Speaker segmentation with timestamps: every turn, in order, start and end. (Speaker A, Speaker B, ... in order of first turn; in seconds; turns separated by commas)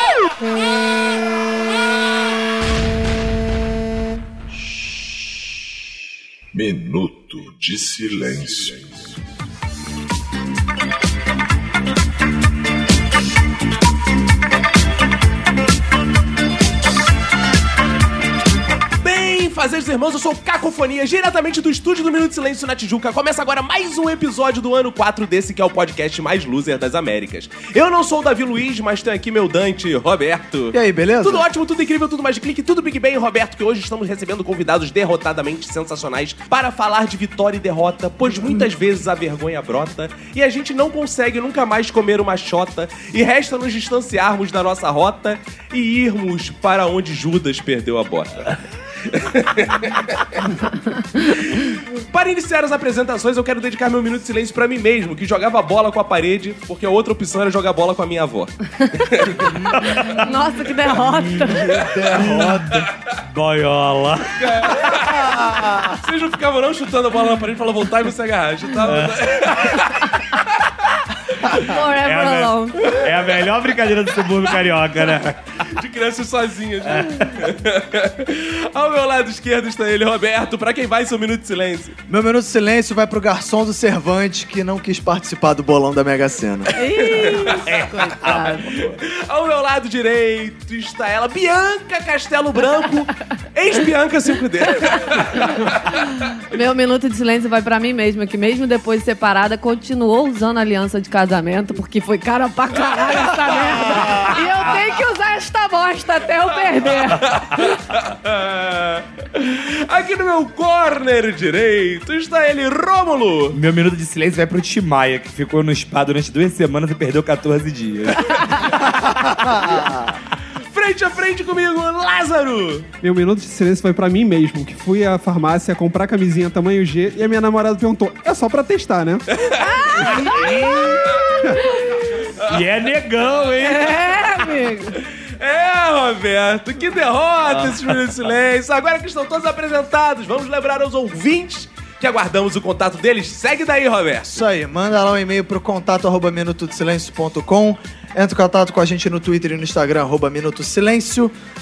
Speaker A: 6.5-9.2, Speaker B: 19.0-48.5, Speaker C: 30.7-31.5, Speaker B: 49.1-50.3, Speaker B: 51.2-59.5, Speaker D: 59.5-60.3, Speaker E: 59.8-61.7, Speaker D: 60.9-65.9, Speaker C: 61.6-62.9, Speaker B: 64.4-65.2, Speaker C: 65.2-65.9, Speaker B: 66.0-70.4, Speaker D: 68.8-69.8, Speaker E: 71.6-72.8, Speaker D: 71.8-75.4, Speaker B: 75.7-82.0, Speaker D: 76.9-77.5, Speaker C: 82.1-86.7, Speaker E: 86.8-88.9, Speaker B: 87.1-87.6, Speaker D: 87.6-89.0, Speaker B: 88.8-95.8, Speaker E: 96.0-107.4, Speaker D: 104.0-104.4, Speaker B: 107.0-113.6, Speaker D: 113.5-119.3, Speaker C: 119.4-120.2, Speaker B: 120.7-122.9, Speaker F: 123.0-129.2, Speaker B: 129.3-129.9, Speaker E: 129.6-132.0, Speaker D: 130.1-131.1, Speaker B: 132.4-132.7, Speaker D: 132.4-134.1, Speaker E: 133.6-134.9, Speaker B: 135.0-144.4, Speaker D: 137.5-138.0, Speaker C: 144.3-151.3